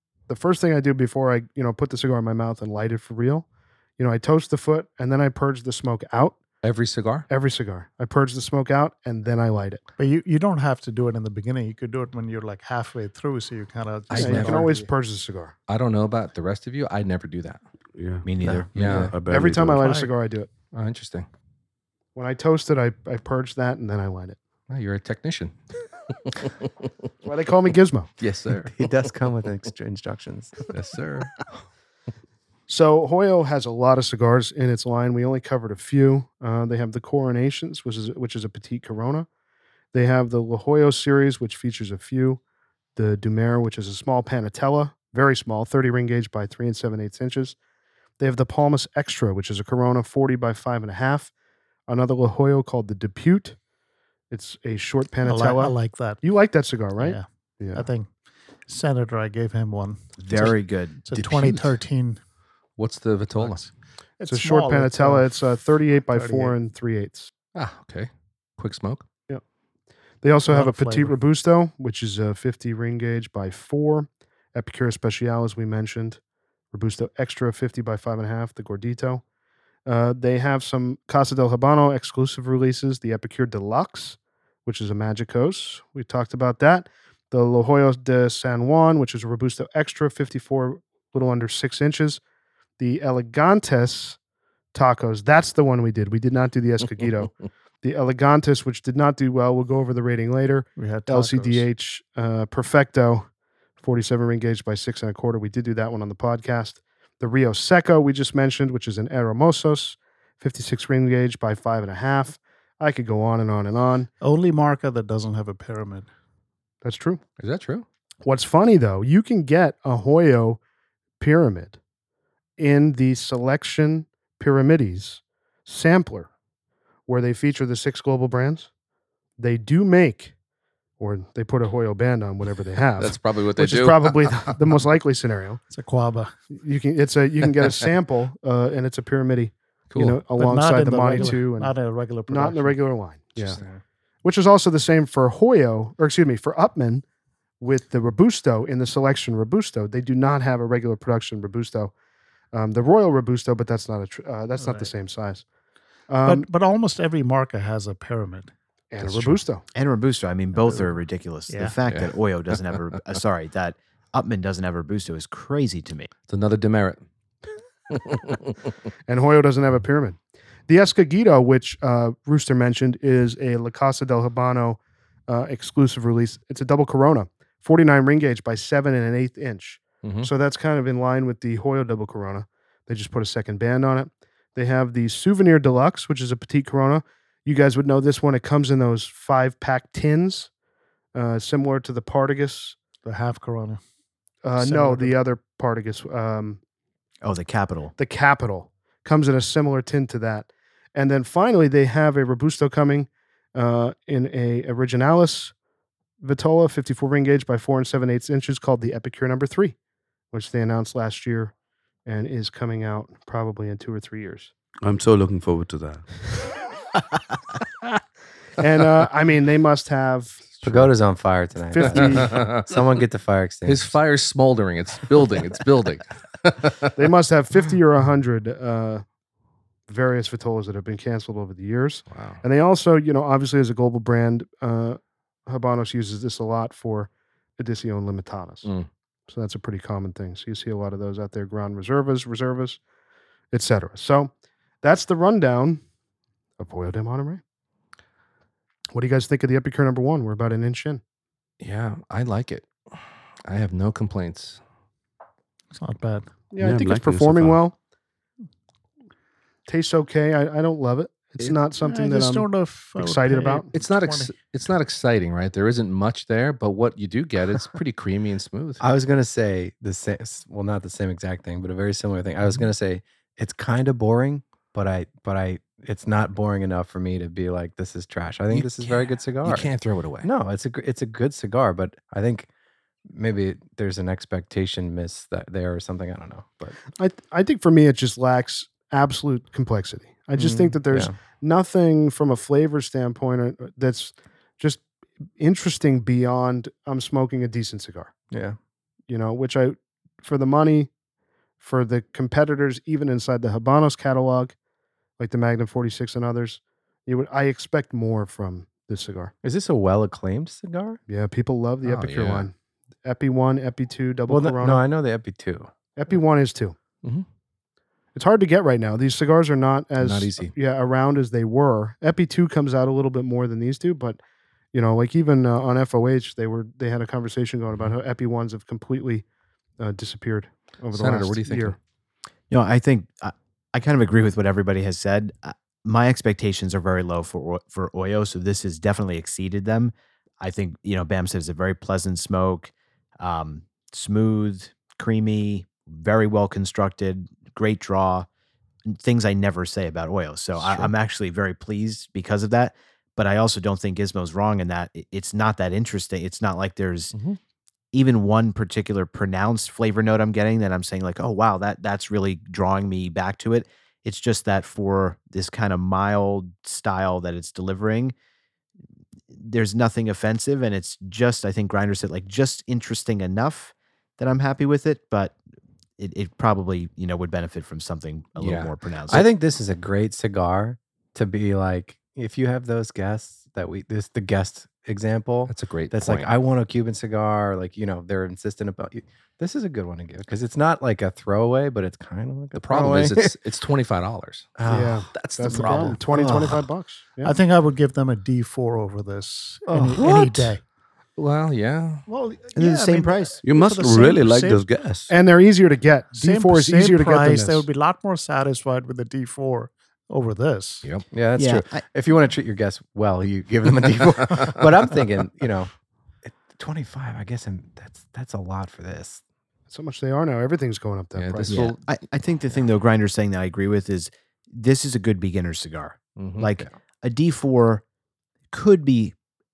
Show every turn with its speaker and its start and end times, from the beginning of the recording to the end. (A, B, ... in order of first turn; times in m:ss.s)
0:00.3-0:03.5 A
0:04.0-0:06.4 A
0:06.6-0:07.3 B
0:07.3-0:09.8 A
0:10.0-0:14.9 C
0:14.1-0:14.7 B
0:14.1-0:15.5 A
0:15.7-0:17.6 B
0:18.0-0:19.9 D
0:18.2-0:18.7 E
0:18.8-0:19.2 B
0:19.3-0:20.5 A
0:19.7-0:20.1 C
0:20.7-0:21.3 B
0:22.2-0:24.4 A
0:24.7-0:25.6 B
0:26.2-0:26.7 B
0:27.2-0:28.1 A
0:28.2-0:29.1 B
0:28.5-0:30.7 F
0:30.7-0:31.6 B
0:32.7-0:39.3 A
0:39.9-0:42.4 A
0:43.0-0:47.6 A
0:48.2-0:51.3 A
0:51.9-0:53.6 A
0:54.3-0:57.9 A
0:55.2-0:56.2 C
0:57.0-0:58.1 C
0:58.7-1:02.2 C
1:00.2-1:01.7 E
1:02.8-1:03.6 B
1:03.4-1:05.4 C
1:04.3-1:07.3 A
1:06.1-1:06.6 C
1:07.6-1:09.0 B
1:10.2-1:16.2 A
1:10.5-1:11.2 C
1:16.7-1:19.2 A
1:19.9-1:32.2 A
1:32.8-1:34.2 A
1:34.7-1:43.3 A
1:40.8-1:41.7 C
1:43.8-1:54.1 A
1:54.2-1:56.1 C
1:56.8-1:57.2 A
1:57.4-1:57.8 B
1:58.2-2:00.6 A
2:01.2-2:01.8 A
2:02.6-2:06.3 A
2:07.1-2:08.7 A
2:09.4-2:10.3 A
2:11.0-2:15.6 A
2:13.0-2:14.6 B
2:15.7-2:16.3 C
2:16.5-2:21.7 A
2:19.9-2:20.2 B
2:20.4-2:22.8 C
2:22.3-2:23.6 A
2:23.5-2:23.8 C
2:24.2-2:27.0 A
2:27.6-2:31.9 A
2:32.5-2:35.4 A
2:34.6-2:34.9 C
2:36.1-2:36.5 A
2:36.2-2:39.4 C
2:38.9-2:39.6 A
2:39.7-2:46.1 E
2:41.5-2:41.8 C
2:46.3-2:47.0 B
2:47.9-2:48.4 B
2:49.1-3:10.5 A
3:00.0-3:00.3 B
3:11.1-3:12.8 A
3:13.0-3:13.8 C
3:14.4-3:16.6 A
3:14.6-3:15.2 C
3:17.2-3:17.9 E
3:18.0-3:25.5 A
3:26.2-3:29.8 A
3:30.3-3:31.5 A
3:32.1-3:34.5 A
3:34.8-3:36.1 D
3:38.6-3:40.4 A
3:40.6-3:40.9 B
3:40.6-3:43.9 F
3:41.7-3:42.4 A
3:41.8-3:42.8 B
3:43.7-3:46.9 B
3:47.0-3:49.0 A
3:49.9-3:58.7 A
3:52.1-3:52.4 B
3:59.3-4:02.8 A
4:03.5-4:04.3 A
4:04.8-4:05.8 A
4:06.6-4:07.4 A
4:08.9-4:11.0 A
4:11.6-4:14.6 B
4:15.7-4:16.3 C
4:16.5-4:17.8 A
4:16.6-4:17.6 D
4:19.7-4:23.7 A
4:21.8-4:24.4 C
4:23.7-4:28.8 B
4:28.8-4:39.7 F
4:38.5-4:40.3 B
4:40.2-4:42.5 F
4:43.1-4:46.8 F
4:47.0-4:54.8 A
4:50.4-4:51.2 F
4:55.4-4:58.1 A
4:58.3-4:58.6 F
4:59.1-5:00.9 A
5:01.6-5:04.6 A
5:05.2-5:09.3 A
5:09.4-5:11.0 F
5:11.1-5:14.8 A
5:11.8-5:12.5 B
5:14.3-5:15.7 F
5:16.0-5:16.8 A
5:18.2-5:24.2 A
5:20.0-5:20.5 B
5:24.7-5:29.2 A
5:29.8-5:31.8 A
5:30.9-5:31.8 B
5:32.5-5:48.3 E
5:48.9-5:57.1 E
5:57.1-5:57.4 B
5:57.9-6:08.2 E
6:09.3-6:15.4 E
6:16.0-6:19.3 E
6:18.4-6:18.7 B
6:19.1-6:33.4 F
6:25.5-6:26.3 B
6:32.6-6:34.6 B
6:34.6-6:36.6 F
6:34.7-6:37.4 A
6:35.1-6:36.0 B
6:37.2-6:40.6 C
6:39.7-6:40.1 F
6:40.0-6:40.5 B
6:41.2-6:42.1 B
6:42.1-6:44.6 C
6:42.6-6:43.4 E
6:43.4-6:45.1 D
6:45.1-6:47.6 A
6:46.1-6:50.9 C
6:51.1-6:55.7 F
6:51.4-6:51.8 E
6:54.3-6:54.6 B
6:56.2-6:59.2 F
6:59.7-7:01.7 A
7:01.2-7:01.9 B
7:01.5-7:07.8 E
7:06.2-7:06.6 B
7:08.5-7:09.2 E